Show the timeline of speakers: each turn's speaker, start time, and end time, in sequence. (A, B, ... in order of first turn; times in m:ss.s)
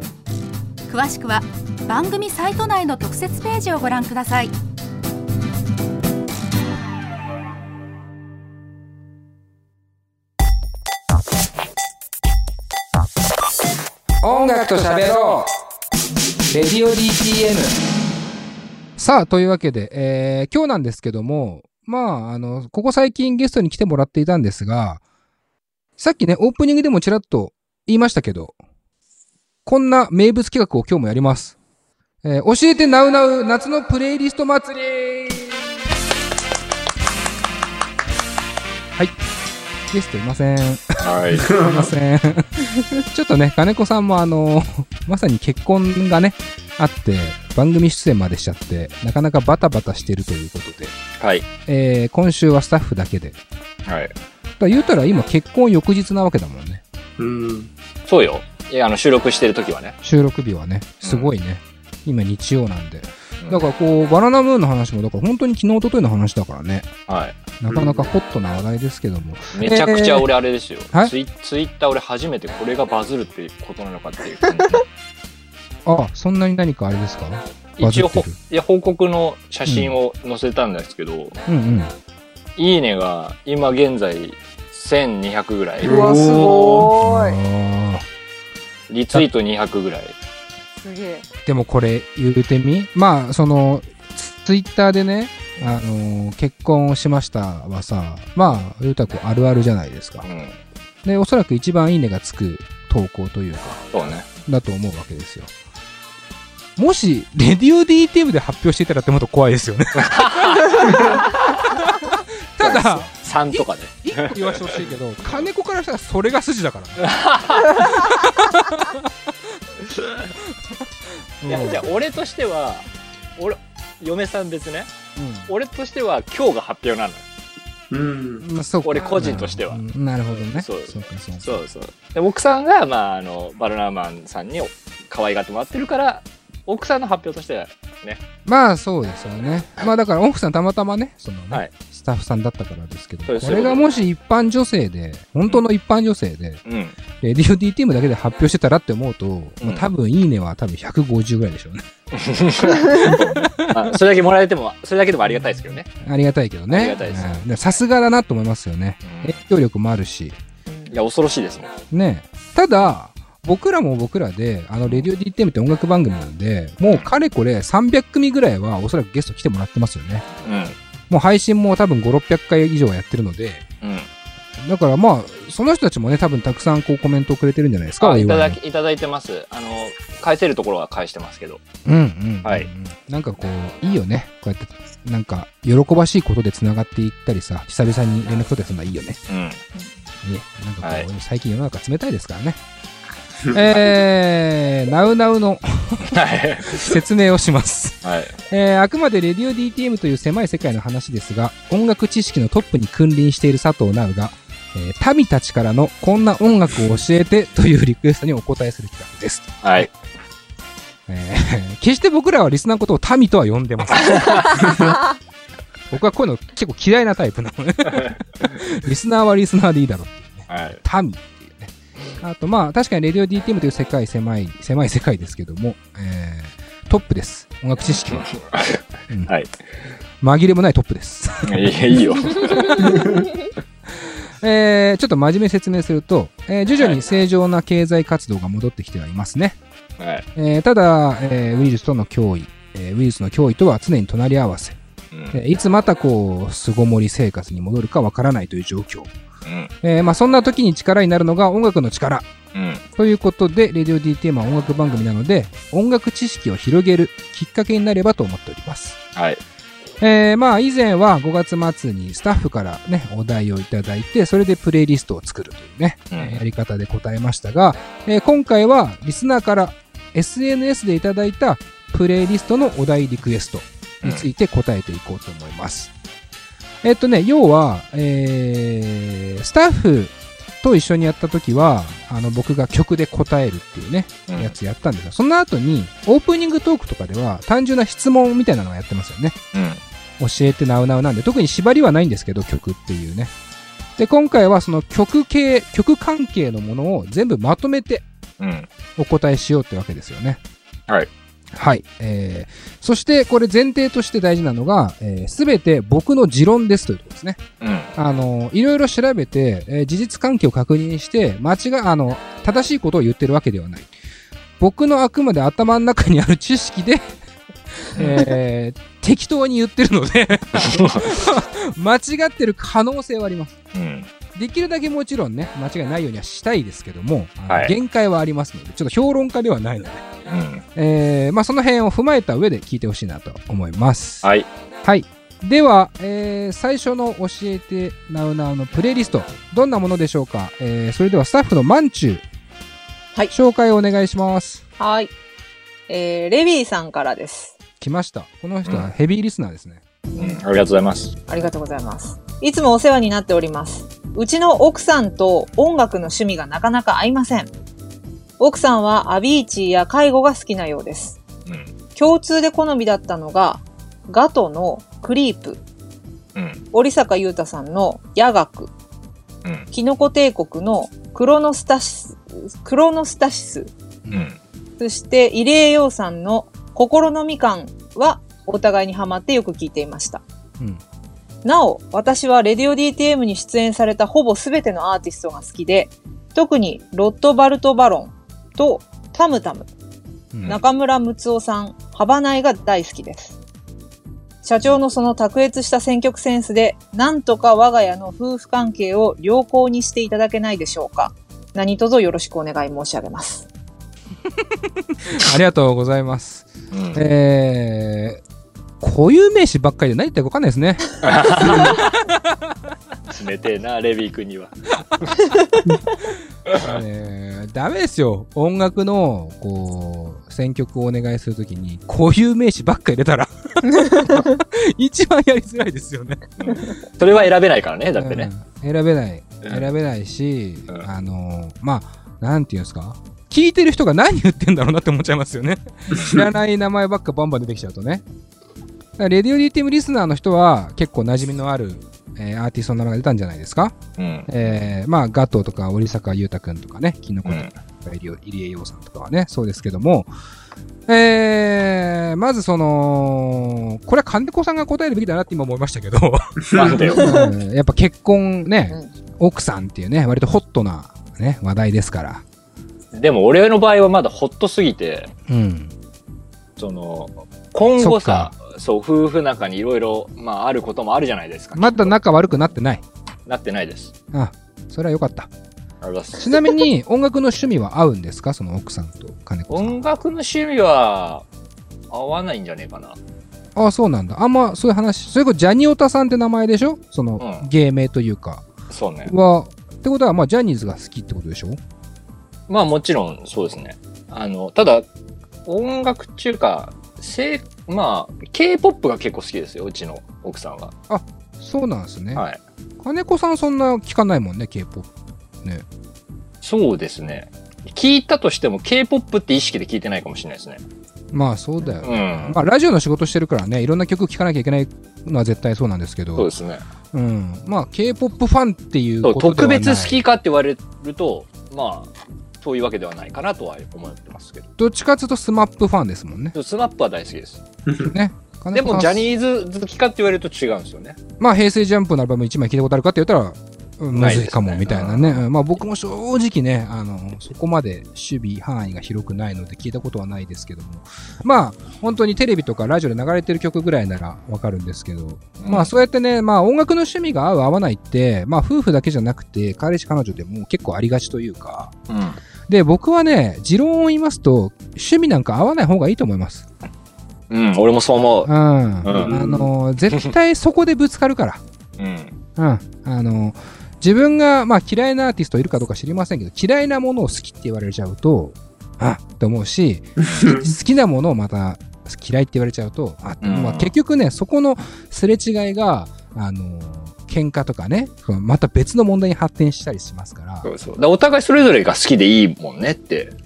0:00.9-0:04.5 A
0:14.2-0:15.5 B
0:16.5-0:17.7 B
0:19.0-0:25.0 B
0:26.0-0:28.5 B
0:29.6-0:31.6 B
0:32.2-0:35.6 B
0:39.9-0:50.9 B
0:41.0-0:41.5 C
0:41.3-0:41.9 D
0:51.2-0:51.4 C
0:51.6-0:53.4 B
0:53.8-0:54.1 C
0:54.6-0:56.8 B
0:57.2-0:57.7 D
0:58.1-1:00.0 C
1:00.0-1:06.9 B
1:01.0-1:01.3 C
1:07.1-1:07.3 C
1:07.6-1:10.3 B
1:07.7-1:08.1 D
1:09.5-1:14.8 C
1:15.8-1:18.4 B
1:17.8-1:21.4 C
1:19.6-1:20.0 B
1:21.5-1:21.9 B
1:22.6-1:26.1 C
1:25.8-1:26.9 D
1:25.8-1:27.4 E
1:27.0-1:28.0 B
1:28.9-1:30.2 C
1:30.8-1:31.2 E
1:31.4-1:40.3 B
1:40.2-1:40.6 C
1:41.0-1:43.8 B
1:43.9-1:44.3 C
1:44.4-1:45.5 B
1:46.8-1:59.1 B
1:50.0-1:50.9 C
1:52.6-1:54.8 C
1:57.0-1:57.8 C
1:59.7-2:00.5 B
2:01.4-2:01.9 B
2:01.4-2:02.8 C
2:03.4-2:04.9 C
2:05.2-2:05.5 B
2:05.5-2:07.2 C
2:07.9-2:08.4 D
2:08.4-2:11.6 B
2:08.8-2:09.8 C
2:10.5-2:18.2 C
2:18.4-2:26.6 B
2:23.3-2:23.9 C
2:26.6-2:27.0 C
2:27.2-2:31.8 B
2:29.6-2:29.9 C
2:32.1-2:35.9 C
2:32.9-2:33.9 B
2:36.0-2:40.4 B
2:36.7-2:37.4 C
2:39.0-2:39.4 C
2:40.9-2:41.7 C
2:41.9-2:50.2 B
2:50.4-2:50.8 C
2:51.1-2:53.6 B
2:53.8-2:54.1 C
2:54.6-2:58.6 B
2:58.0-3:01.6 C
3:01.8-3:09.2 B
3:02.4-3:02.7 C
3:09.3-3:09.6 C
3:10.2-3:12.6 B
3:10.8-3:11.1 C
3:13.5-3:29.9 B
3:16.1-3:17.0 C
3:18.0-3:18.3 C
3:29.6-3:29.9 C
3:31.1-3:34.6 B
3:34.1-3:34.5 C
3:34.6-3:34.9 D
3:35.9-3:48.4 B
3:40.5-3:40.8 C
3:48.1-3:49.5 C
3:50.2-3:53.1 B
3:51.4-3:53.0 C
3:53.9-3:59.6 B
4:00.0-4:00.3 C
4:00.3-4:04.8 B
4:05.1-4:05.4 C
4:05.3-4:09.1 B
4:09.4-4:09.7 C
4:09.8-4:12.3 B
4:12.5-4:12.8 C
4:13.0-4:19.0 B
4:19.2-4:19.4 C
4:20.0-4:35.9 B
4:26.1-4:26.4 C
4:34.0-4:34.3 C
4:36.8-4:49.4 B
4:44.3-4:44.5 C
4:49.5-4:49.8 C
4:50.2-4:53.3 B
4:54.0-4:58.0 B
4:58.4-4:58.7 C
4:59.0-5:00.4 B
5:01.5-5:07.4 B
5:07.6-5:07.9 C
5:08.0-5:13.9 B
5:14.6-5:17.2 B
5:17.8-5:23.6 B
5:18.0-5:18.3 C
5:20.6-5:21.0 C
5:23.7-5:24.1 C
5:24.3-5:30.0 B
5:27.5-5:27.7 C
5:30.3-5:30.6 C
5:30.7-5:34.3 B
5:34.2-5:34.5 C
5:34.8-5:42.2 B
5:43.3-5:44.6 B
5:44.8-5:45.1 E
5:45.9-5:47.5 E
5:47.8-5:49.8 B
5:50.2-5:51.1 C
5:51.3-5:57.5 E
5:58.4-6:01.2 E
6:01.4-6:01.7 C
6:02.0-6:05.6 E
6:06.4-6:06.6 C
6:06.7-6:08.7 E
6:09.7-6:13.7 E
6:14.1-6:14.4 C
6:14.8-6:20.2 E
6:21.4-6:29.7 E
6:30.3-6:30.6 B
6:30.5-6:33.4 E
6:34.4-6:43.5 E
6:44.3-6:48.2 B
6:46.7-6:47.0 C
6:48.8-6:52.3 B
6:51.0-6:51.8 C
6:53.1-6:54.7 C
6:56.5-7:06.3 B
7:06.4-7:08.3 C
7:08.0-7:18.0 B
7:09.4-7:09.7 C
7:19.0-7:23.8 B
7:24.0-7:24.3 C
7:24.3-7:30.1 B
7:27.2-7:27.5 C
7:30.9-7:42.2 B
7:36.5-7:36.8 D
7:36.5-7:37.0 C
7:37.0-7:37.3 E
7:42.9-7:45.1 C
7:45.3-7:45.7 B
7:46.6-7:52.0 C
7:47.8-7:48.3 B
7:51.5-7:52.8 B
7:53.3-7:53.9 C
7:54.1-7:55.3 B
7:55.8-7:56.4 C
7:56.2-7:59.8 B
7:59.5-8:01.2 C
8:01.9-8:03.0 C
8:03.6-8:08.4 B
8:07.2-8:07.5 C
8:08.7-8:09.1 C
8:09.0-8:11.6 B
8:12.5-8:14.9 C
8:15.4-8:20.7 C
8:20.9-8:22.2 B
8:22.1-8:22.4 C
8:22.8-8:24.9 B
8:26.4-8:30.6 C
8:31.1-8:36.3 B
8:31.8-8:32.4 C
8:36.2-8:36.6 C
8:36.9-8:40.0 B
8:39.0-8:44.5 C
8:44.6-8:46.3 B
8:46.3-8:47.4 C
8:47.7-8:47.9 D
8:47.8-8:49.1 B
8:48.5-8:51.0 C
8:51.2-9:11.7 B
8:53.9-8:55.2 C
9:05.4-9:05.7 C
9:11.9-9:12.2 C
9:12.5-9:16.4 B
9:17.3-9:18.3 C
9:18.2-9:21.4 B
9:18.8-9:19.2 C
9:18.9-9:19.4 D
9:21.8-9:22.1 C
9:22.4-9:40.5 B
9:30.0-9:30.5 D
9:33.2-9:33.7 C
9:40.4-9:43.1 C